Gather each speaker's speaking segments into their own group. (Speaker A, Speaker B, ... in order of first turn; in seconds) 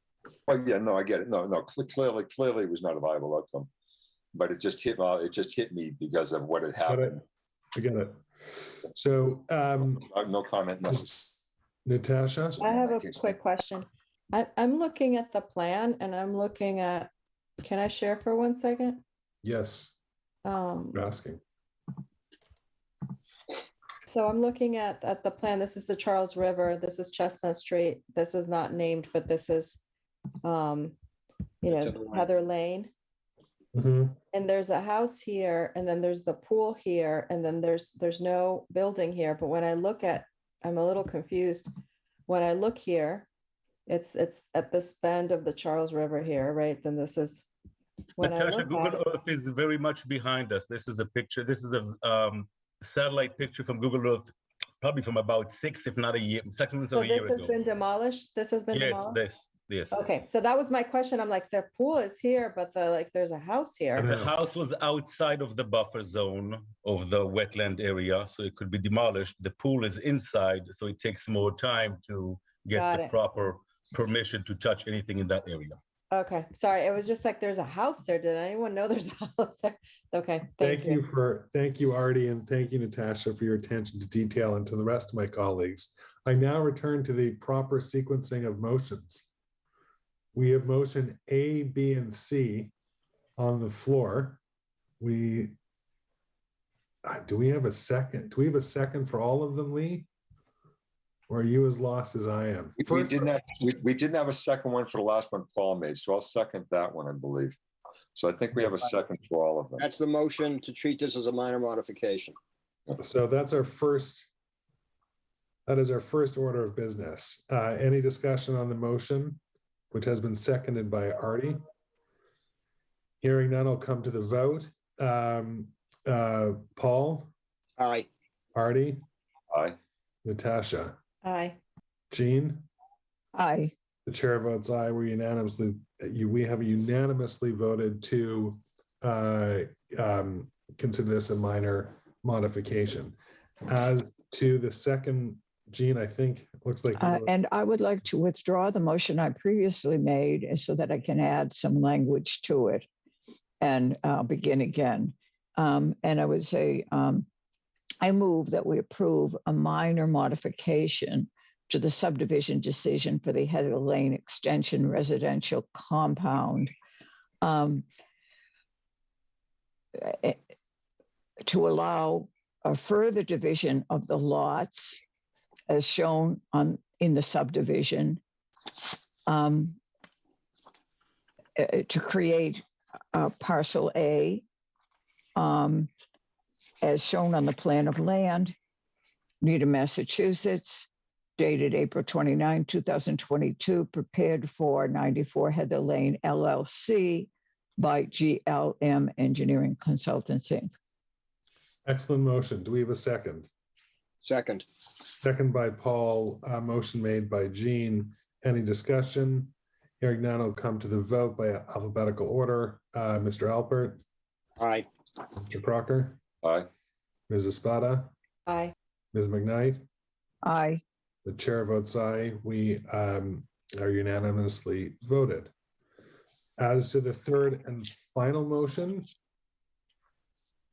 Speaker A: 0.5-3.7, 4.3-7.2, 9.9-11.3, 12.6-13.4, 102.8-107.6, 108.2-109.8, 129.5-129.8, 216.4-216.7
Speaker B: 6.9-7.2, 7.8-8.2, 8.9-10.1, 11.8-12.6, 19.4-19.9, 20.9-21.4, 33.7-34.2, 64.0-64.3, 80.6-89.3, 90.3-92.7, 93.4-94.4, 95.0-95.6, 97.0-100.1, 101.3-103.2, 113.0-114.3, 115.7-119.4, 119.9-121.6, 123.2-127.3, 128.6-129.0, 130.2-131.0, 132.1-132.7, 134.1-147.3, 201.9-203.5, 205.2-214.0, 215.4-216.2, 217.3-218.1, 219.1-219.8, 221.2-225.5, 226.6-229.1
Speaker C: 12.6-17.1, 17.6-19.0, 20.4-21.0, 24.1-29.8, 30.4-30.9, 31.6-32.9, 34.3-41.7, 42.3-43.3, 43.9-47.5, 48.2-49.0, 56.9-59.2, 59.9-64.1, 72.7-73.1, 76.1-81.0, 131.2-131.6, 218.5-218.7
Speaker D: 31.7-32.3, 109.8-112.4, 127.8-128.1, 204.2-204.7, 214.6-214.9
Speaker E: 48.2-54.3, 54.8-57.6, 58.7-60.1, 64.0-75.8
Speaker F: 133.3-133.7, 147.0-152.9, 153.6-157.3, 158.0-166.7, 167.4-167.9, 169.9-170.4, 171.5-175.0, 175.7-178.2, 179.3-179.8, 181.6-184.4, 185.4-185.9, 186.8-188.6, 189.4-200.7, 220.4-220.8